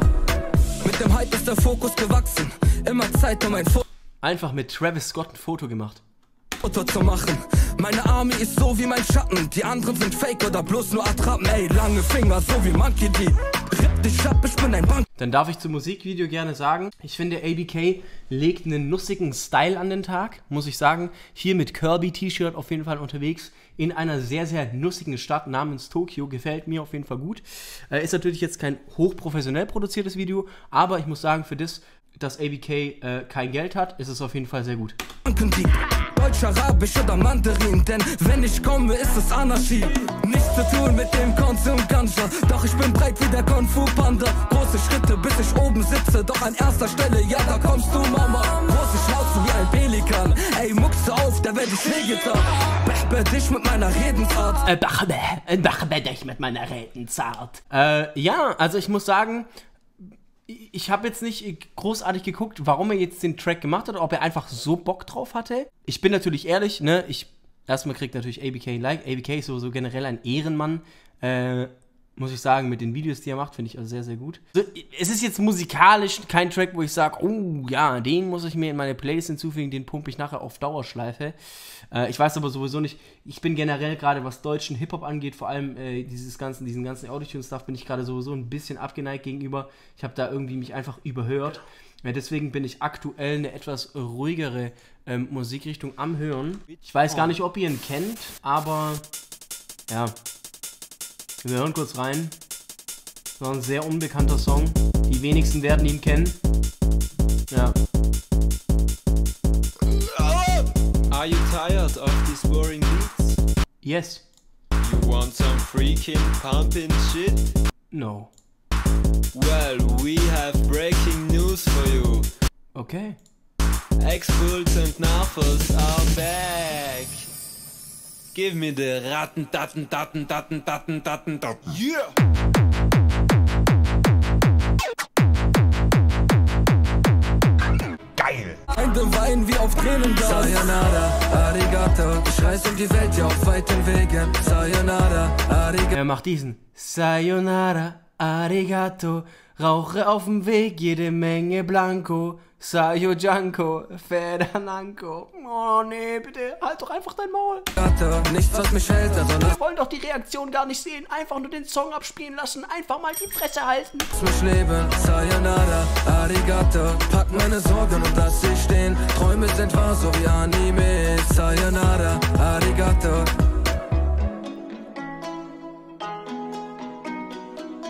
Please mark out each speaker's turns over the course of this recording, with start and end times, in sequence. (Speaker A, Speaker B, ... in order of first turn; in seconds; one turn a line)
Speaker A: 0.8-3.9
Speaker B: 4.2-6.0
Speaker A: 6.6-15.1
Speaker B: 15.2-35.0
Speaker A: 35.2-54.7
Speaker B: 54.6-59.5
Speaker B: 60.0-81.4
Speaker B: 81.9-99.0
Speaker B: 99.9-100.2
Speaker B: 101.4-102.3
Speaker B: 103.4-106.4
Speaker B: 107.5-107.8
Speaker C: 109.8-113.4
Speaker B: 113.8-114.2
Speaker C: 114.8-117.5
Speaker B: 117.9-118.3
Speaker C: 119.3-122.3
Speaker B: 122.8-123.2
Speaker C: 124.0-127.3
Speaker C: 128.3-132.1
Speaker C: 138.2-138.6
Speaker A: 138.7-145.9
Speaker B: 145.9-157.7
Speaker A: 157.8-159.5
Speaker B: 159.3-164.1
Speaker A: 164.1-173.4